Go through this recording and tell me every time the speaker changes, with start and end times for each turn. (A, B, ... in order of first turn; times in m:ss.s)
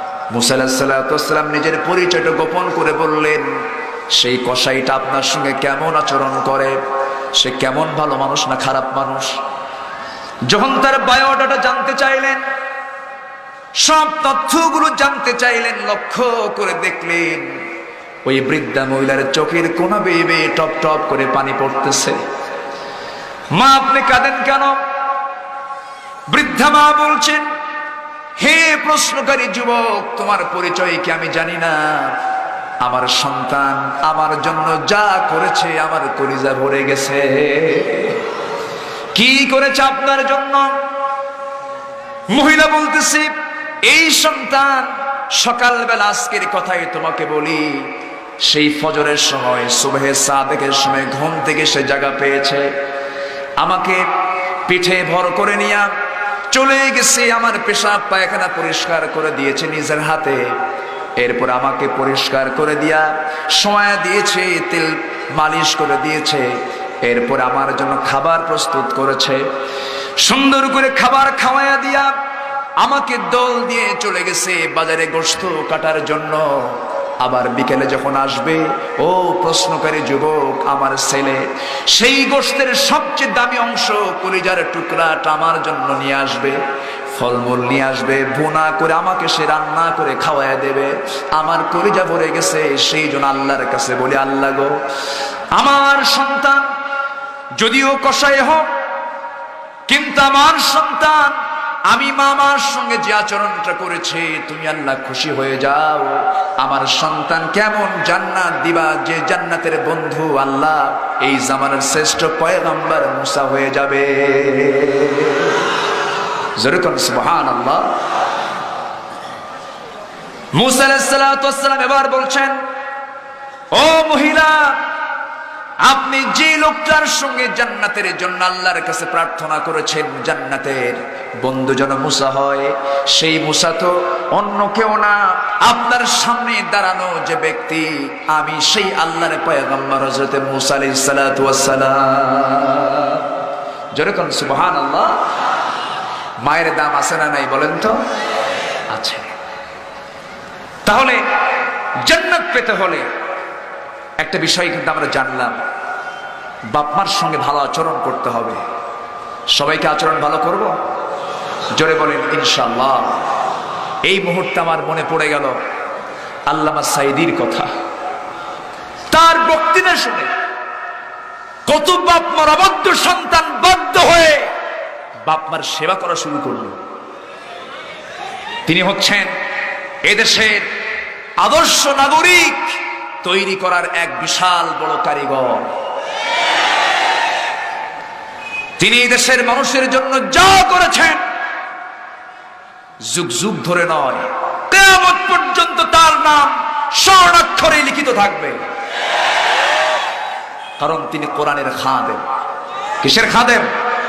0:00.3-0:06.8 A
0:07.3-0:09.4 A
0:10.5-0:12.4 A
0:13.8-0:17.6 A
0:18.2-0:22.2 A
0:23.5-0:24.8 A
0:26.3-0:27.5 A
0:28.4-0:32.2 A
0:32.8-0:38.2 A
0:39.1-0:40.8 A
0:42.3-0:43.3 A
0:43.8-0:52.7 A
0:53.6-0:54.1 A
0:54.7-0:55.9 A
0:56.5-1:00.6 A
1:01.2-1:09.4 A
1:10.2-1:12.1 A
1:12.8-1:26.6 A
1:27.1-1:34.8 A
1:35.5-1:36.7 A
1:37.6-1:38.7 A
1:39.9-1:55.7 A
1:56.6-1:57.9 A
2:00.5-2:02.6 A
2:03.7-2:04.8 A
2:05.8-2:23.3 A
2:23.9-2:25.2 A
2:26.4-2:28.0 A
2:28.9-2:29.3 A
2:30.8-2:31.2 A
2:32.0-2:33.1 A
2:34.2-2:35.6 A
2:36.7-2:38.6 A
2:39.5-2:40.8 A
2:41.8-2:43.2 A
2:44.0-2:45.6 A
2:46.5-2:47.7 A
2:49.1-2:50.3 A
2:51.7-2:54.5 A
2:55.2-2:56.8 A
2:58.6-2:59.3 A
3:00.0-3:00.6 A
3:01.4-3:05.7 A
3:08.8-3:11.2 A
3:13.0-3:18.6 A
3:20.8-3:22.2 A
3:23.0-3:23.7 A